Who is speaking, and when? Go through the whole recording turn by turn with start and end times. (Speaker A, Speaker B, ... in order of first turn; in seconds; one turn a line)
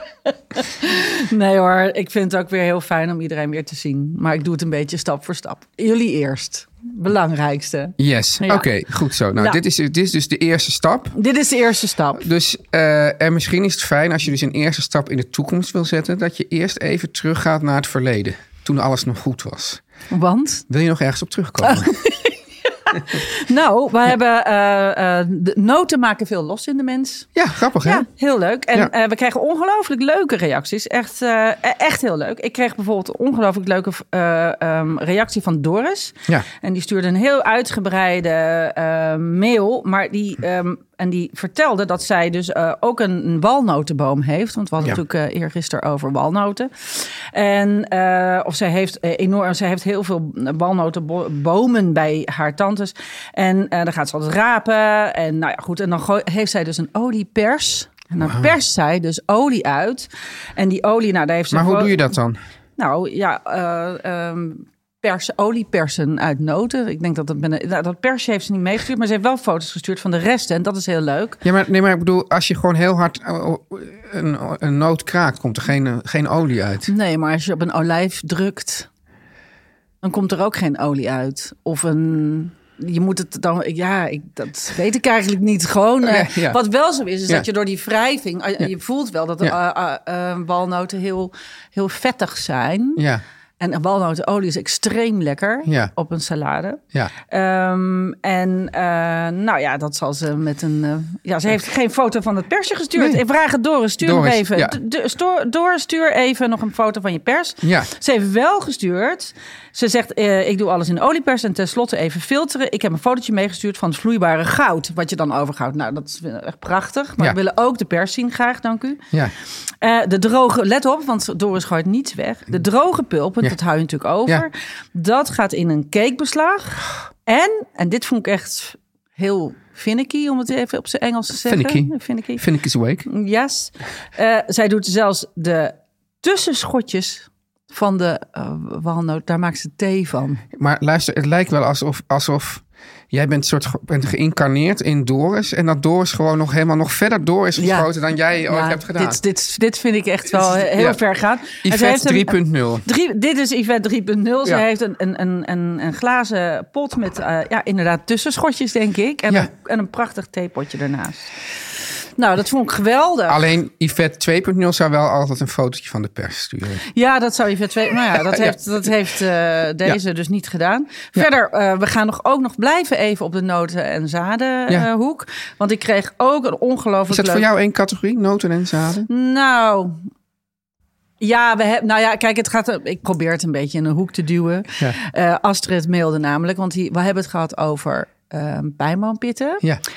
Speaker A: 0.6-8.7
Speaker B: 8.0-11.2
Speaker A: 9.4-9.6
Speaker A: 11.2-12.2
Speaker B: 12.2-19.8
Speaker A: 20.1-20.6
Speaker B: 20.7-21.9
Speaker A: 21.6-27.3
Speaker B: 27.4-28.1
Speaker A: 27.8-62.0
Speaker B: 58.2-58.5
Speaker B: 61.5-62.4
Speaker A: 62.8-71.4
Speaker B: 71.4-76.9
Speaker A: 76.9-78.9
Speaker A: 80.0-93.0
Speaker B: 86.0-86.6
Speaker B: 93.0-93.2
Speaker A: 93.6-119.1
Speaker B: 95.7-95.9
Speaker B: 104.0-104.8
Speaker B: 107.6-107.9
Speaker A: 119.8-132.4
Speaker B: 131.5-133.1
Speaker A: 133.1-140.4
Speaker B: 140.5-149.2
Speaker A: 147.6-147.9
Speaker A: 148.5-161.3
Speaker B: 150.4-151.0
Speaker B: 151.6-152.9
Speaker A: 162.2-163.4
Speaker B: 163.3-166.9
Speaker A: 166.9-177.5
Speaker B: 168.1-168.6
Speaker B: 177.1-179.1
Speaker A: 179.1-180.0
Speaker A: 181.2-189.6